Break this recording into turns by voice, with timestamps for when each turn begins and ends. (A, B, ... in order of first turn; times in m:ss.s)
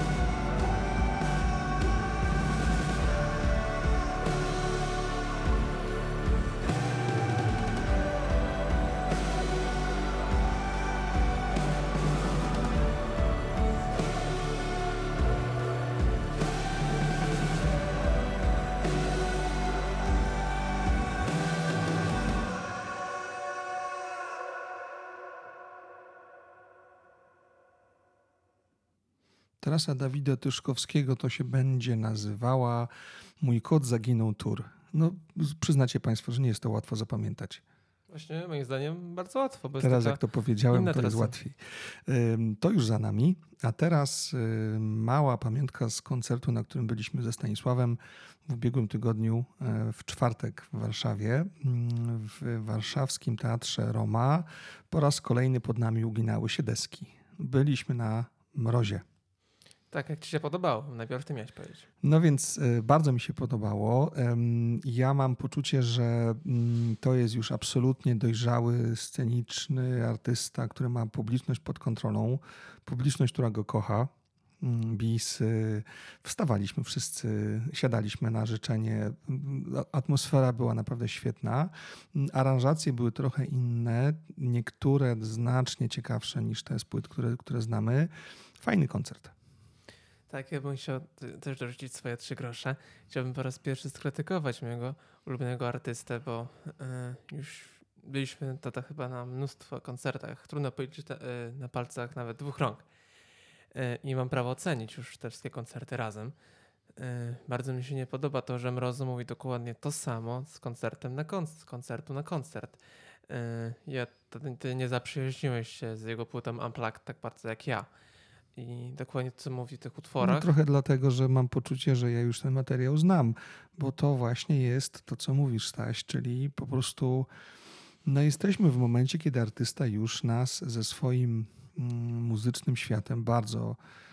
0:29.6-0:37.6 A
0:38.1-0:41.3 B
0:39.8-0:59.0 A
0:59.9-1:01.9 B
1:02.0-1:29.3 A
1:30.3-1:42.9 B
1:43.7-1:46.3 B
1:47.0-1:57.9 B
1:58.5-2:00.5 B
2:00.2-2:07.3 A
2:08.0-2:13.8 A